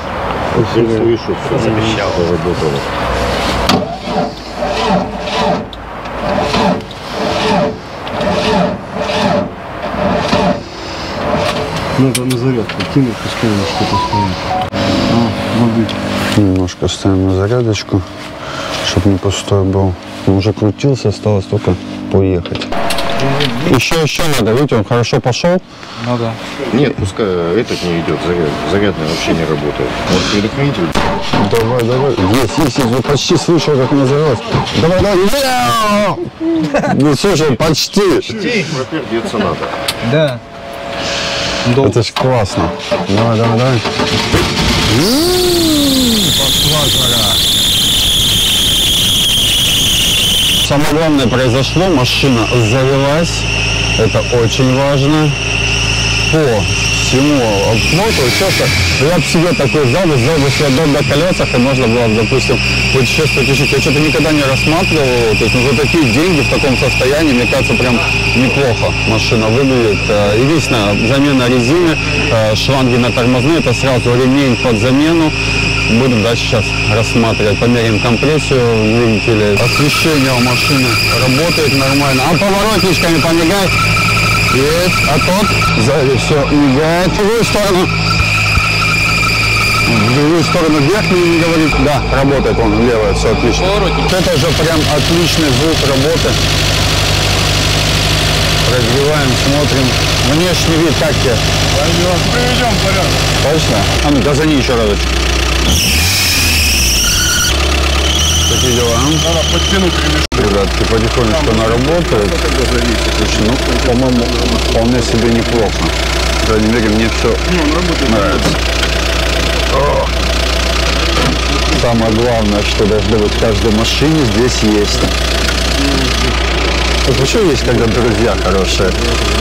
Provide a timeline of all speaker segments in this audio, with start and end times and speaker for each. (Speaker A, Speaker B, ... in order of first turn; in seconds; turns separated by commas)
Speaker A: 0.6-2.9, Speaker B: 0.6-0.9, Speaker C: 12.0-14.4, Speaker C: 15.1-15.9, Speaker B: 16.4-18.1, Speaker B: 18.8-22.7, Speaker D: 23.2-23.6, Speaker B: 23.6-25.6, Speaker D: 26.0-26.4, Speaker A: 26.7-30.9, Speaker B: 31.3-38.4, Speaker D: 38.3-38.8, Speaker A: 38.4-39.7, Speaker D: 40.0-40.4, Speaker D: 41.7-42.0, Speaker B: 41.8-43.9, Speaker B: 44.9-47.4, Speaker B: 50.6-55.4, Speaker B: 56.2-75.4, Speaker B: 75.9-83.7, Speaker B: 84.5-87.9, Speaker B: 89.9-96.4, Speaker D: 93.5-94.0, Speaker B: 98.7-101.4, Speaker E: 101.8-103.1, Speaker C: 102.0-102.8, Speaker B: 103.4-105.1, Speaker B: 108.5-109.3, Speaker E: 109.2-110.5, Speaker B: 110.3-112.5, Speaker E: 111.3-114.6, Speaker B: 113.1-117.4, Speaker E: 117.5-118.5, Speaker B: 118.0-118.6, Speaker B: 119.7-120.1, Speaker B: 121.7-125.1, Speaker B: 127.0-129.0